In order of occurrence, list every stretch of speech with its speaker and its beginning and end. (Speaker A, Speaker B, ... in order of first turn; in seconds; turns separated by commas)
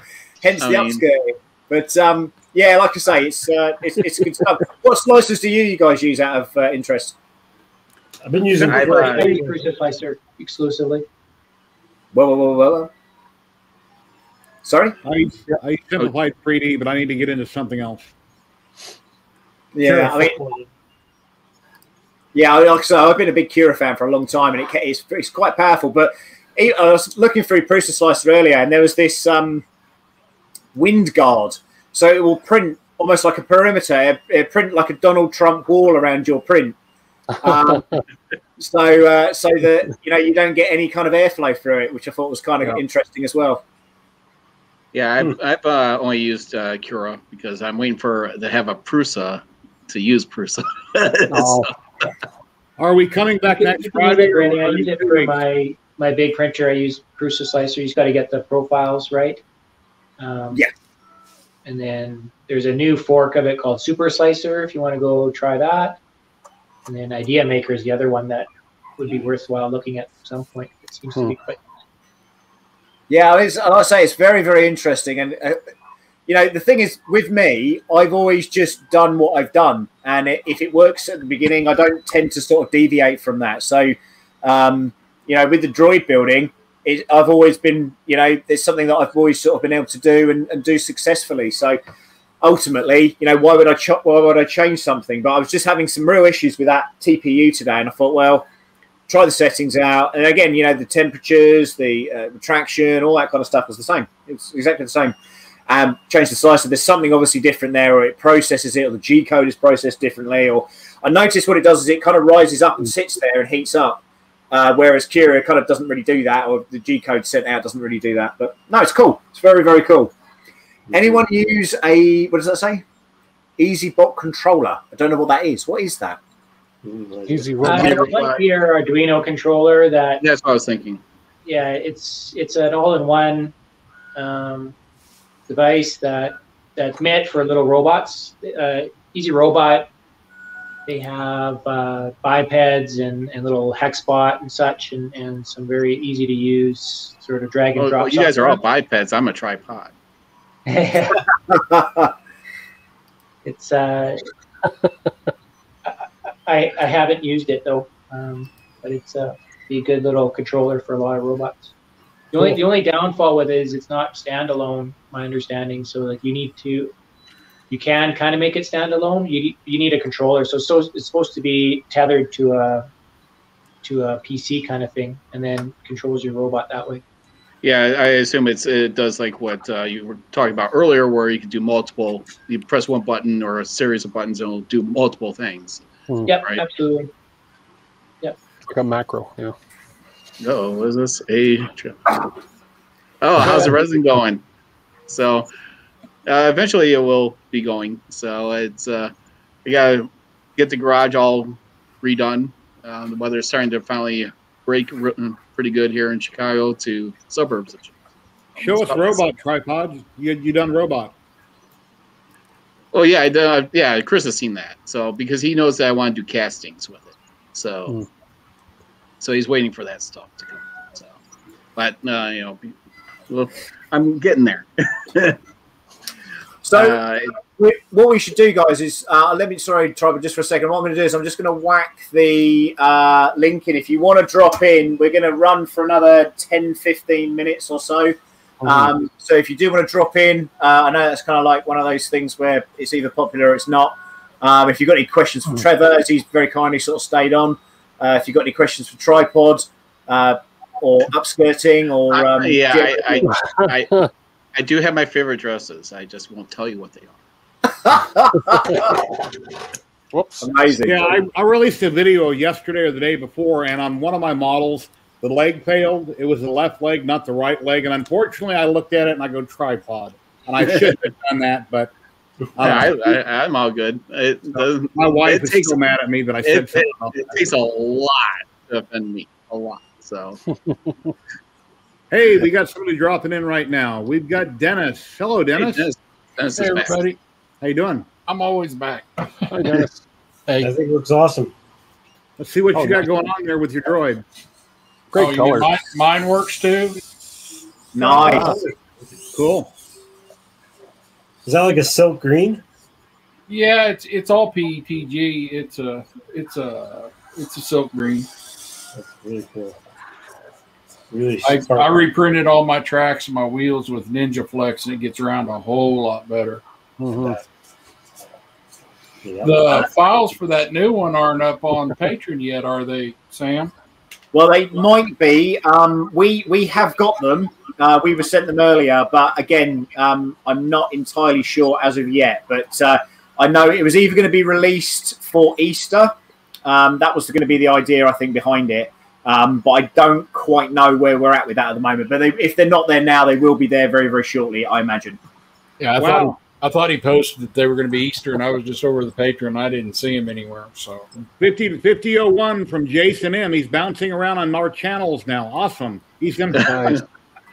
Speaker A: 0.4-7.2, Speaker B: 0.6-1.0, Speaker C: 8.2-9.6, Speaker D: 8.6-8.9, Speaker E: 8.7-11.1, Speaker B: 8.7-9.3, Speaker A: 12.1-12.9, Speaker A: 14.6-15.0, Speaker D: 15.0-18.1, Speaker A: 19.8-20.4, Speaker C: 19.8-20.7, Speaker A: 22.3-29.6, Speaker A: 30.8-36.8, Speaker A: 37.4-37.9, Speaker A: 38.6-43.6, Speaker B: 44.9-51.7, Speaker F: 51.3-51.7, Speaker D: 52.8-55.4, Speaker E: 53.5-59.4, Speaker E: 60.2-60.6, Speaker E: 61.6-66.0, Speaker E: 66.9-71.6, Speaker A: 73.1-75.6, Speaker A: 76.3-91.8, Speaker A: 92.4-98.5, Speaker A: 99.1-105.2, Speaker A: 105.7-120.1, Speaker C: 120.9-121.2, Speaker A: 120.9-122.8, Speaker A: 123.6-126.2, Speaker C: 126.8-128.2, Speaker F: 127.3-128.3, Speaker E: 127.6-130.2, Speaker B: 130.2-131.0, Speaker E: 131.5-133.5, Speaker E: 134.2-134.8, Speaker E: 135.5-139.9, Speaker E: 140.9-148.6, Speaker B: 147.8-149.9, Speaker E: 150.7-151.2, Speaker A: 151.5-152.1, Speaker E: 153.4-154.2, Speaker E: 155.9-161.7, Speaker E: 162.3-166.9, Speaker E: 167.7-172.9, Speaker E: 173.8-177.0, Speaker B: 177.6-185.8, Speaker E: 186.3-187.1, Speaker F: 188.7-189.6, Speaker B: 190.4-192.2, Speaker B: 193.2-194.4, Speaker F: 193.4-193.7, Speaker B: 195.1-195.5, Speaker B: 196.3-199.1, Speaker B: 199.7-207.9, Speaker B: 208.6-209.2, Speaker D: 208.6-211.1, Speaker B: 212.9-218.0, Speaker B: 219.2-221.1, Speaker B: 221.8-222.7, Speaker B: 223.3-225.4, Speaker A: 226.7-253.3, Speaker B: 226.7-227.3, Speaker F: 238.6-238.9, Speaker B: 252.1-254.0, Speaker F: 253.3-254.1, Speaker B: 254.6-257.2, Speaker A: 257.8-259.0, Speaker F: 260.1-260.5, Speaker A: 260.4-261.2, Speaker D: 260.8-271.9, Speaker B: 270.6-270.9, Speaker D: 272.6-273.2, Speaker B: 272.6-275.8, Speaker D: 274.6-277.2, Speaker B: 276.4-280.4, Speaker D: 282.1-285.9, Speaker B: 285.6-287.0, Speaker G: 286.6-287.2, Speaker D: 287.6-288.1, Speaker G: 288.3-289.9, Speaker F: 289.5-290.0, Speaker G: 290.5-290.7, Speaker C: 290.6-291.5, Speaker D: 292.4-294.2, Speaker F: 292.7-293.1, Speaker F: 295.1-295.8, Speaker G: 295.1-297.0, Speaker A: 297.9-298.6, Speaker C: 298.0-298.7, Speaker D: 298.0-298.6, Speaker D: 299.3-299.7, Speaker C: 301.4-302.6, Speaker G: 303.5-308.3, Speaker C: 308.9-309.8, Speaker C: 311.1-312.1, Speaker G: 311.4-316.6, Speaker F: 317.0-317.4, Speaker C: 319.2-319.8, Speaker G: 319.4-323.7, Speaker A: 324.3-345.2, Speaker G: 345.8-351.1, Speaker D: 346.0-346.4, Speaker D: 351.4-356.9, Speaker B: 356.6-357.0, Speaker F: 356.7-357.0